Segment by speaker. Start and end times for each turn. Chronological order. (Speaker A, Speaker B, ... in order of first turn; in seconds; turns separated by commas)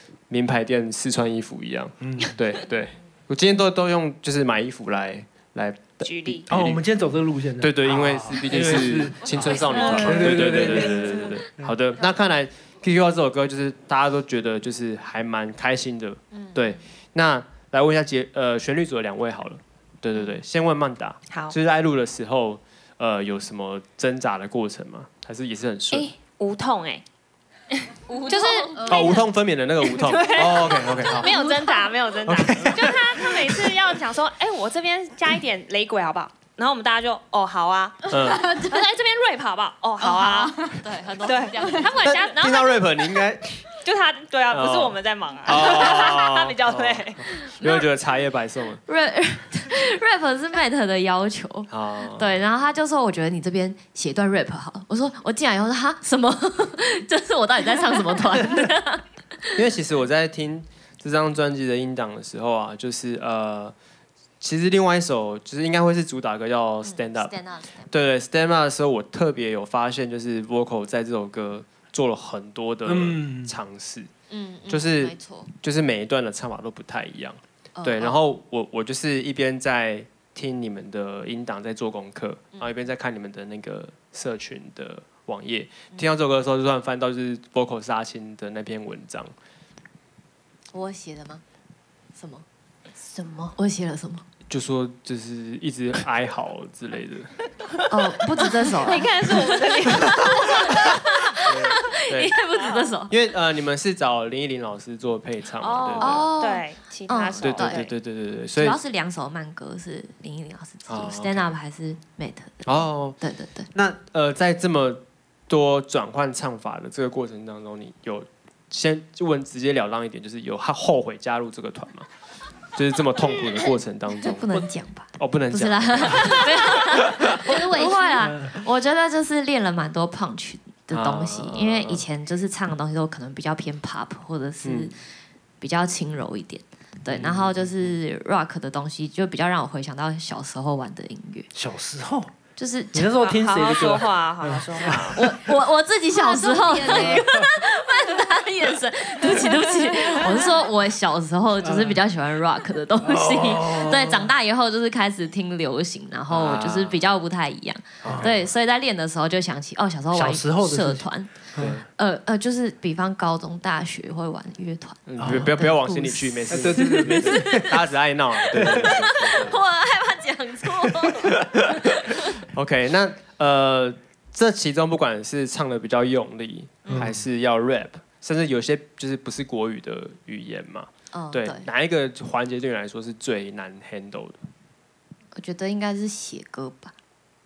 Speaker A: 0.3-6.8, Speaker B: 2.0-2.4, Speaker C: 6.0-6.5, Speaker B: 6.5-11.7, Speaker A: 7.6-26.1, Speaker C: 25.9-27.0, Speaker D: 28.1-28.8, Speaker E: 28.2-29.2, Speaker C: 28.3-29.2, Speaker A: 28.9-31.3, Speaker C: 29.8-42.9, Speaker E: 31.2-31.9, Speaker A: 32.2-33.2, Speaker A: 38.1-38.5, Speaker E: 38.2-38.8, Speaker E: 40.0-40.8, Speaker D: 40.8-41.8, Speaker A: 42.0-43.6, Speaker C: 43.8-47.2, Speaker A: 44.5-48.8, Speaker D: 48.9-59.6, Speaker A: 51.7-52.4, Speaker A: 59.5-63.7, Speaker A: 64.4-67.3, Speaker D: 66.8-67.9, Speaker A: 67.9-74.1, Speaker B: 72.8-73.5, Speaker D: 74.3-75.5, Speaker A: 74.7-89.3, Speaker D: 77.8-78.2, Speaker D: 90.7-91.4, Speaker D: 92.2-92.4, Speaker E: 93.0-93.5, Speaker D: 93.6-94.2, Speaker A: 94.5-97.3, Speaker D: 97.9-103.1, Speaker C: 98.7-100.8, Speaker A: 101.4-102.3, Speaker C: 102.5-102.9, Speaker A: 103.1-106.3, Speaker C: 105.6-107.9, Speaker D: 106.0-107.9, Speaker A: 107.4-108.8, Speaker D: 108.5-113.7, Speaker A: 110.9-111.5, Speaker A: 112.6-113.2, Speaker A: 113.7-122.1, Speaker A: 122.7-124.6, Speaker E: 123.4-123.7, Speaker D: 124.2-134.9, Speaker A: 125.2-127.5, Speaker E: 127.4-128.3, Speaker B: 128.2-128.5, Speaker A: 130.9-132.0, Speaker A: 134.6-134.9, Speaker D: 135.6-141.5, Speaker A: 137.1-138.0, Speaker B: 141.5-142.3, Speaker D: 142.6-143.1, Speaker B: 142.9-145.3, Speaker C: 143.2-145.2, Speaker D: 145.2-172.4, Speaker E: 146.1-147.3, Speaker B: 146.9-147.4, Speaker E: 149.2-150.5, Speaker B: 151.6-152.0, Speaker B: 153.0-154.3, Speaker A: 156.3-157.1, Speaker B: 158.0-158.3, Speaker A: 158.0-158.5, Speaker B: 160.1-161.8, Speaker A: 161.6-161.8, Speaker A: 165.1-169.6, Speaker B: 165.2-165.7, Speaker B: 166.5-167.7, Speaker B: 168.6-168.8, Speaker A: 170.8-184.4, Speaker B: 176.9-177.2, Speaker D: 181.1-181.7, Speaker D: 185.3-186.9